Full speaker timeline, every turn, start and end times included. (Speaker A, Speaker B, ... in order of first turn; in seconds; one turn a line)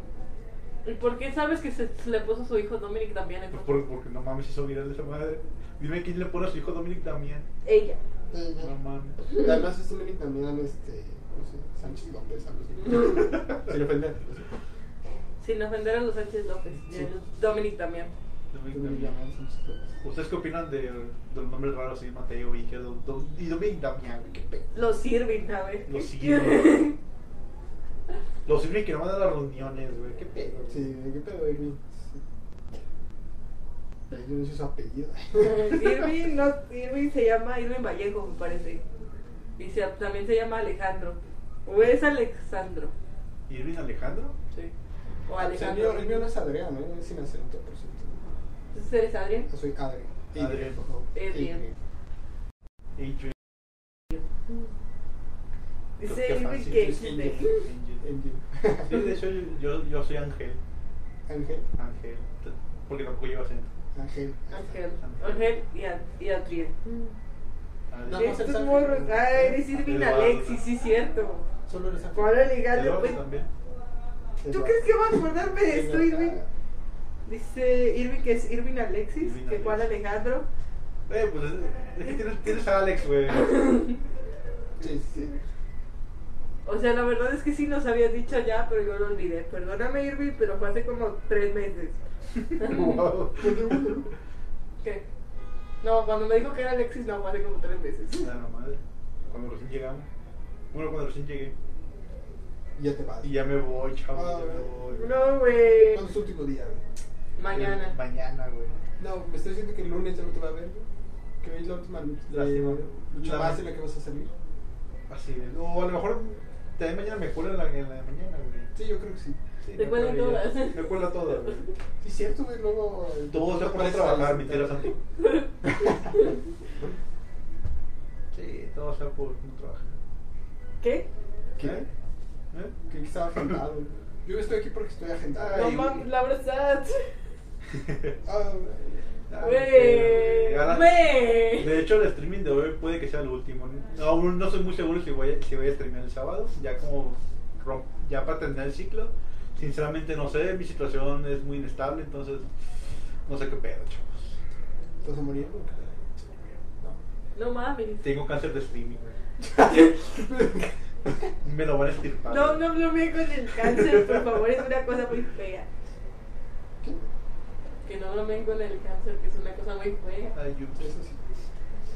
Speaker A: 0.8-3.8
Speaker B: 3.5-7.5
Speaker A: 7.7-8.0
Speaker C: 8.3-8.7
Speaker B: 8.6-9.2
Speaker C: 9.4-14.4
Speaker A: 15.4-18.1
Speaker B: 18.5-19.1
Speaker C: 18.7-20.0
Speaker B: 20.0-24.9
Speaker A: 24.7-27.0
Speaker B: 25.9-26.9
Speaker B: 28.5-30.9
Speaker C: 30.7-32.2
Speaker C: 34.1-36.1
Speaker A: 35.4-38.8
Speaker A: 39.6-42.9
Speaker B: 43.5-44.4
Speaker A: 45.3-46.3
Speaker C: 45.4-48.3
Speaker A: 48.7-49.5
Speaker C: 49.5-51.7
Speaker B: 50.4-50.8
Speaker A: 51.1-51.6
Speaker B: 53.0-53.6
Speaker A: 56.0-57.6
Speaker B: 56.0-58.0
Speaker C: 56.7-59.0
Speaker B: 58.8-60.6
Speaker C: 61.3-61.7
Speaker B: 61.8-63.7
Speaker C: 63.9-64.8
Speaker A: 64.5-67.0
Speaker B: 65.0-65.5
Speaker B: 67.9-68.4
Speaker C: 68.1-69.6
Speaker A: 68.1-71.5
Speaker B: 69.6-70.6
Speaker C: 71.7-72.4
Speaker A: 72.1-73.2
Speaker B: 72.7-73.5
Speaker C: 74.4-74.9
Speaker A: 74.5-76.4
Speaker C: 75.6-76.5
Speaker A: 77.3-80.5
Speaker B: 79.2-79.9
Speaker B: 81.1-83.8
Speaker A: 83.4-84.0
Speaker C: 84.8-85.3
Speaker A: 86.7-92.0
Speaker B: 92.4-94.1
Speaker A: 92.6-93.0
Speaker C: 93.4-94.1
Speaker A: 95.8-98.3
Speaker B: 98.2-100.1
Speaker B: 100.7-101.5
Speaker C: 102.8-103.4
Speaker B: 103.2-105.1
Speaker C: 104.1-104.8
Speaker A: 104.9-106.1
Speaker C: 105.9-106.8
Speaker A: 107.4-107.9
Speaker B: 107.5-108.8
Speaker C: 109.0-110.9
Speaker C: 111.4-114.3
Speaker B: 112.3-113.6
Speaker B: 115.1-118.7
Speaker C: 118.7-119.4
Speaker B: 119.6-121.7
Speaker A: 119.8-121.7
Speaker C: 122.0-125.0
Speaker B: 123.3-125.0
Speaker A: 125.2-126.4
Speaker B: 128.3-130.0
Speaker A: 130.8-131.1
Speaker C: 131.6-131.9
Speaker C: 132.9-135.7
Speaker B: 135.3-136.1
Speaker A: 135.5-137.1
Speaker B: 137.7-138.1
Speaker C: 138.2-139.1
Speaker B: 139.3-152.5
Speaker A: 139.4-141.7
Speaker B: 153.3-154.3
Speaker C: 155.0-156.3
Speaker A: 157.4-158.0
Speaker B: 158.0-159.1
Speaker C: 159.4-160.7
Speaker B: 161.4-162.7
Speaker A: 162.3-165.7
Speaker B: 163.7-164.2
Speaker A: 167.8-170.3
Speaker B: 170.3-170.9
Speaker C: 170.8-171.2